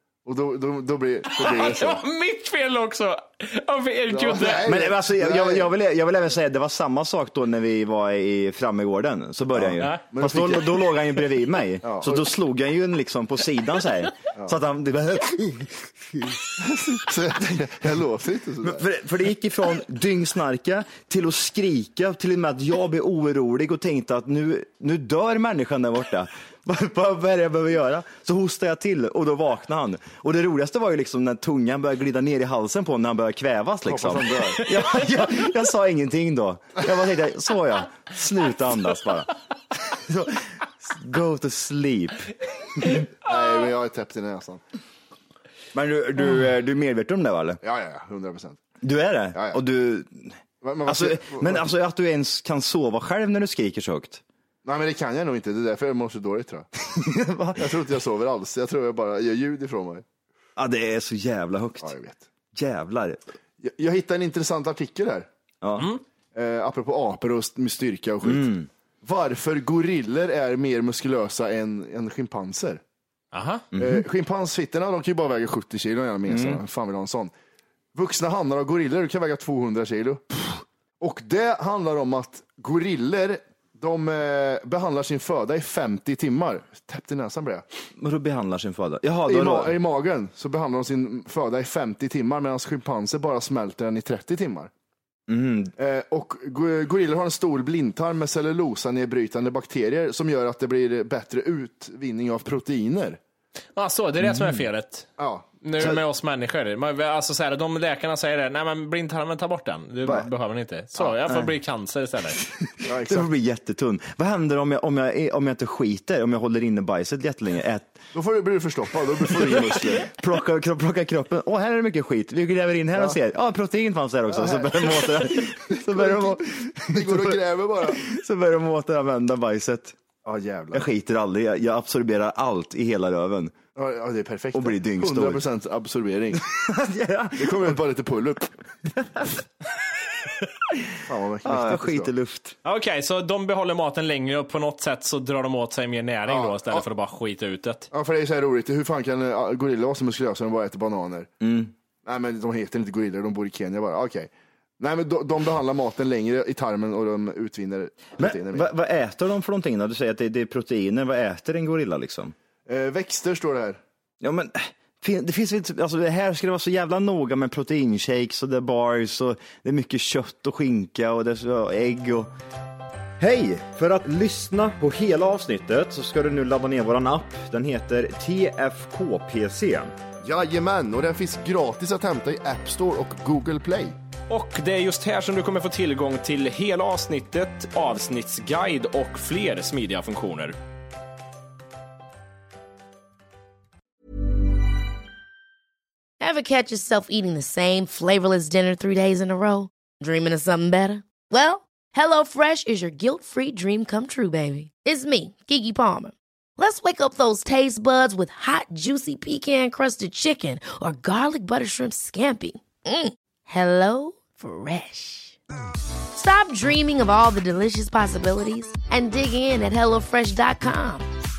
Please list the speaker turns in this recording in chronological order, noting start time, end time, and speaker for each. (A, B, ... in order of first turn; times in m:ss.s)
0:00.2-0:02.0 A
0:01.3-0:04.7 B
0:04.1-0:05.7 A
0:04.6-0:16.4 C
0:09.5-0:10.8 A
0:11.8-0:12.3 A
0:16.6-0:18.8 A
0:18.6-0:43.0 C
0:33.9-0:34.6 A
0:43.2-0:44.6 A
0:43.4-0:43.7 B
0:45.7-0:47.6 C
0:47.6-0:48.6 A
0:48.8-0:50.3 C
0:49.3-0:49.6 A
0:50.6-0:51.7 A
0:50.9-0:54.2 C
0:54.6-0:56.7 A
0:56.8-0:57.8 C
0:57.6-1:00.0 A
1:00.6-1:02.0 C
1:01.8-1:02.2 A
1:02.5-1:03.2 C
1:03.6-1:05.3 A
1:05.6-1:05.9 C
1:06.4-1:12.8 A
1:08.2-1:08.7 C
1:13.3-1:13.6 B
1:13.7-1:14.1 C
1:13.8-1:17.3 A
1:16.3-1:16.6 C
1:18.0-1:27.6 A
1:28.0-1:29.8 C
1:29.3-1:34.7 A
1:35.3-1:35.7 C
1:35.8-1:43.2 A
1:43.8-1:45.1 B
1:44.2-1:44.7 C
1:45.2-1:45.5 A
1:45.6-1:52.4 B
1:51.0-1:51.4 A
1:52.6-1:58.0 C
1:52.8-1:53.3 A
1:58.1-2:00.1 A
1:59.2-2:10.0 C
2:04.3-2:08.0 A
2:10.2-2:10.9 A
2:10.7-2:13.6 C
2:13.8-2:16.4 A
2:14.5-2:15.4 C
2:16.3-2:17.8 C
2:17.4-2:18.5 A
2:21.0-2:22.1 A
2:21.4-2:22.6 C
2:22.6-2:27.9 B
2:26.3-2:26.9 A
2:27.9-2:31.3 A
2:31.4-2:31.7 C
2:32.0-2:38.7 A
2:38.2-2:42.3 C
2:42.7-2:43.8 A
2:44.2-2:52.3 C
2:53.2-2:59.9 C
3:00.2-3:04.0 A
3:04.3-3:10.6 B
3:16.2-3:35.4 D
3:36.1-3:41.1 D